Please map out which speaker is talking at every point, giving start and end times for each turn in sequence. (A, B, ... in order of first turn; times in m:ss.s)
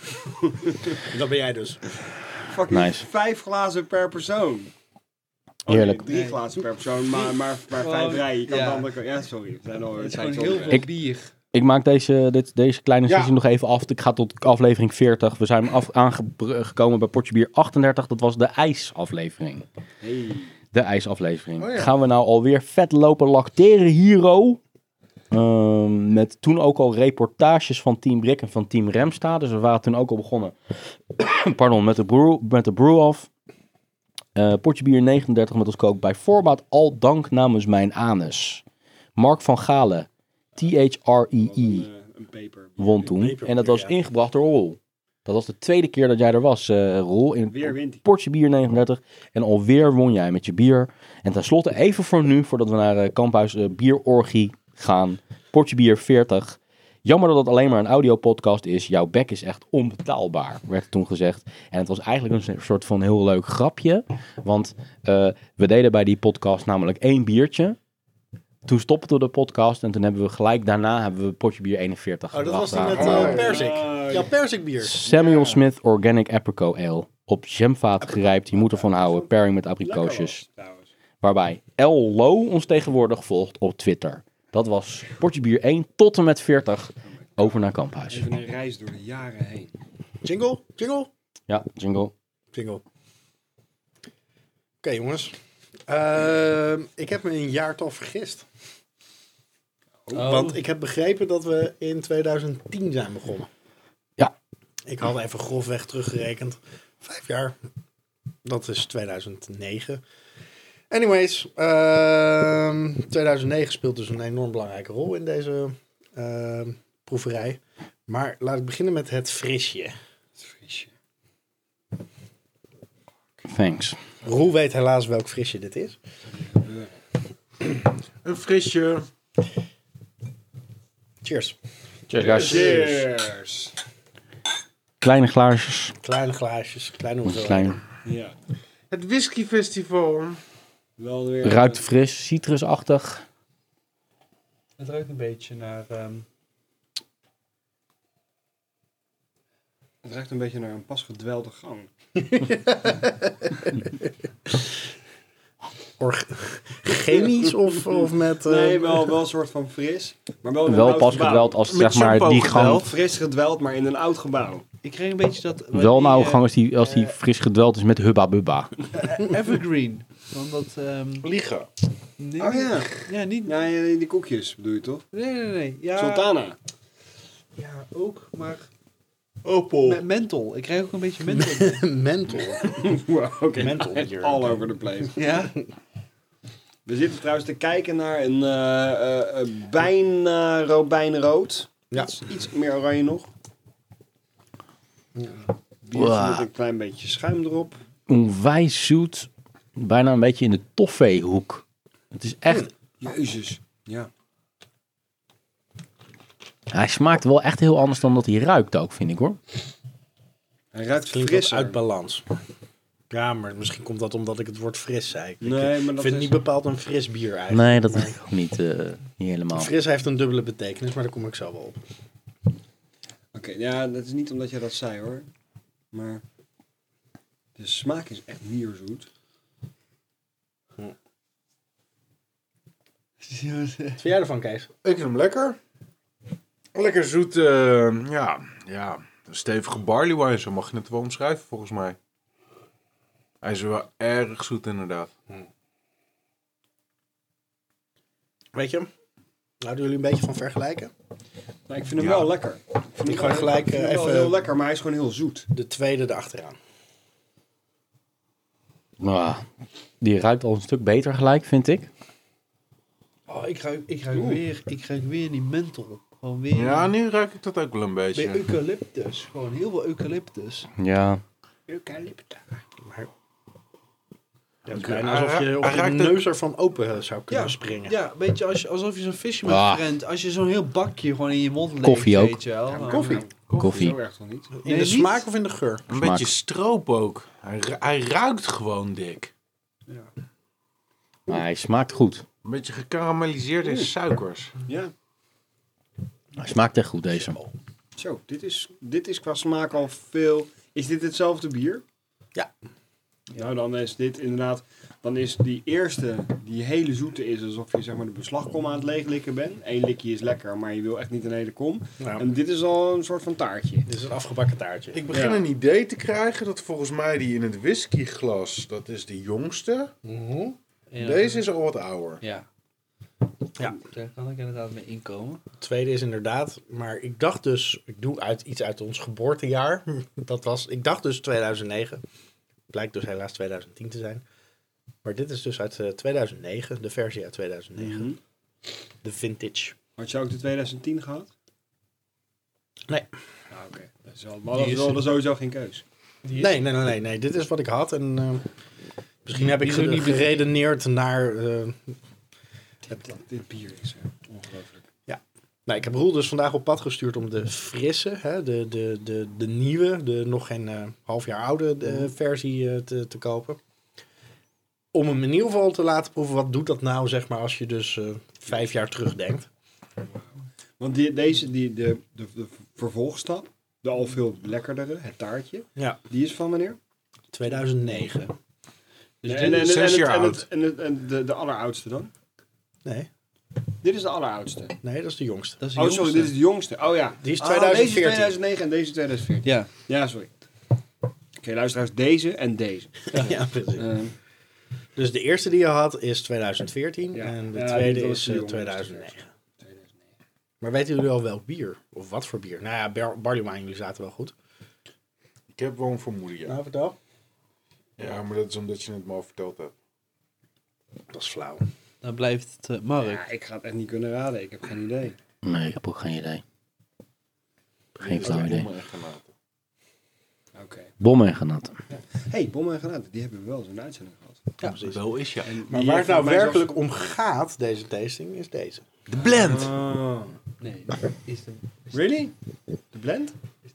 0:00.5-0:01.0 A
0:01.0-0:01.8 B
0:02.4-0:04.7 A
0:02.7-0:03.1 C
0:05.7-0:10.9 A
0:05.7-0:06.0 C
0:06.1-0:06.5 D
0:07.1-0:08.9 D
0:10.0-0:11.3 D
0:11.5-0:19.7 C
0:13.1-0:13.3 E
0:20.0-0:20.6 A
0:20.7-0:24.6 C
0:21.6-0:21.9 E
0:25.3-0:33.3 C
0:34.4-0:38.6 C
0:39.2-0:41.9 C
0:41.4-0:43.2 A
0:42.8-1:07.8 C
0:43.2-0:43.9 B
0:47.5-0:48.0 A
1:08.7-1:13.5 C
1:12.3-1:15.6 B
1:12.9-1:14.3 A
1:13.0-1:13.5 E
1:14.8-1:20.4 C
1:18.0-1:19.3 B
1:19.8-1:20.9 A
1:21.2-1:28.3 C
1:27.1-1:29.7 A
1:30.2-1:31.1 B
1:31.5-1:32.1 C
1:32.5-1:32.8 B
1:34.8-1:35.4 B
1:35.9-1:38.5 B
1:40.1-1:40.4 A
1:40.1-1:40.6 D
1:40.2-1:43.5 B
1:44.9-1:47.6 B
1:48.4-1:50.0 B
1:50.9-1:59.9 B
2:00.4-2:00.9 A
2:03.5-2:04.0 C
2:04.2-2:06.0 B
2:06.3-2:07.0 A
2:08.2-2:09.1 E
2:11.2-2:11.6 B
2:12.1-2:12.9 C
2:12.2-2:13.7 A
2:15.0-2:16.0 C
2:16.0-2:17.8 B
2:17.2-2:17.8 C
2:18.0-2:18.4 A
2:18.9-2:20.4 E
2:21.0-2:21.9 A
2:21.4-2:23.2 C
2:24.8-2:26.3 D
2:30.0-2:31.9 A
2:32.2-2:34.7 B
2:36.0-2:39.2 B
2:38.4-2:41.6 A
2:40.7-2:42.9 C
2:41.6-2:42.9 E
2:42.6-2:44.6 A
2:44.8-2:47.2 D
2:45.7-2:48.7 C
2:48.9-2:51.3 D
2:51.2-2:51.7 E
2:52.2-2:53.5 D
2:52.4-2:55.0 A
2:55.1-2:56.3 D
2:55.9-2:56.6 A
2:57.6-2:58.7 D
2:59.4-3:00.0 E
2:59.8-3:01.8 D
3:01.3-3:02.9 B
3:02.6-3:05.4 A
3:03.5-3:04.6 B
3:05.2-3:05.6 D
3:06.9-3:13.3 A
3:15.2-3:15.5 B
3:15.8-3:17.8 A
3:15.9-3:16.5 C
3:18.1-3:22.7 C
3:23.0-3:24.1 A
3:26.7-3:29.4 C
3:30.7-3:31.8 A
3:31.1-3:32.2 B
3:33.1-3:38.2 B
3:35.4-3:36.4 A
3:37.5-3:39.7 C
3:39.5-3:41.8 B
3:43.3-3:45.3 A
3:45.9-3:46.2 A
3:47.6-3:49.1 A
3:53.2-3:54.0 D
3:54.0-3:54.7 B
3:54.8-3:55.6 E
3:56.7-4:02.0 E
4:03.4-4:05.1 E
4:08.5-4:08.9 B
4:09.6-4:10.9 B
4:11.7-4:15.5 A
4:12.0-4:12.3 E
4:13.0-4:14.4 B
4:15.5-4:16.6 B
4:19.0-4:19.4 C
4:20.0-4:21.9 C
4:23.3-4:26.9 D
4:24.1-4:24.4 A
4:26.5-4:28.5 E
4:28.2-4:30.7 D
4:30.8-4:31.2 C
4:31.7-4:32.4 A
4:32.8-4:33.1 B
4:34.7-4:38.0 B
4:34.7-4:36.2 E
4:37.3-4:43.2 D
4:39.5-4:39.8 C
4:41.8-4:42.4 C
4:42.7-4:44.6 A
4:42.9-4:43.2 B
4:43.5-4:43.9 E
4:43.6-4:44.0 C
4:44.6-4:45.9 B
4:44.6-4:45.2 D
4:45.9-4:49.3 E
4:45.9-4:46.3 C
4:51.3-4:52.2 C
4:52.4-4:54.5 E
4:53.6-4:53.9 A
4:54.7-4:54.9 A
4:56.4-4:57.4 C
4:57.1-4:57.5 B
4:58.0-5:01.8 A
5:03.4-5:13.9 A
5:12.0-5:12.3 B
5:13.9-5:15.0 B
5:14.9-5:19.9 E
5:15.1-5:15.4 A
5:20.0-5:20.6 B
5:20.9-5:21.4 D
5:21.0-5:22.2 E
5:22.2-5:22.5 D
5:23.6-5:25.4 D
5:25.6-5:32.0 B
5:32.7-5:34.2 B
5:35.0-5:38.1 B
5:37.8-5:38.2 A
5:39.0-5:39.8 B
5:40.0-5:41.3 A
5:43.5-5:45.8 A
5:44.6-5:45.0 D
5:46.2-5:46.6 D
5:46.3-5:48.5 B
5:49.2-5:52.0 B
5:49.4-5:50.4 D
5:52.9-5:54.8 A
5:55.1-6:03.6 B
6:04.9-6:09.5 B
6:10.8-6:16.8 A
6:17.3-6:18.3 B
6:19.2-6:19.6 D
6:19.2-6:22.1 A
6:19.5-6:20.4 E
6:23.8-6:24.8 A
6:24.8-6:25.6 B
6:25.6-6:26.3 D
6:25.8-6:30.3 A
6:27.2-6:28.4 B
6:29.4-6:29.7 D
6:31.4-6:34.2 A
6:33.1-6:33.9 B
6:35.0-6:39.3 B
6:37.1-6:39.9 A
6:40.6-6:44.3 B
6:45.5-6:46.6 E
6:46.4-6:47.0 B
6:48.0-6:49.7 E
6:51.1-6:51.7 B
6:52.0-6:53.2 D
6:53.0-6:55.2 A
6:55.4-6:56.4 C
6:58.0-6:59.3 E
6:58.0-6:58.7 C
7:00.6-7:00.9 A
7:01.0-7:01.7 C
7:02.1-7:04.5 A
7:04.6-7:05.0 B
7:04.7-7:05.5 E
7:05.5-7:06.8 A
7:05.7-7:08.8 B
7:09.1-7:09.7 E
7:09.2-7:10.4 A
7:10.6-7:12.1 D
7:11.9-7:12.3 A
7:12.9-7:13.4 A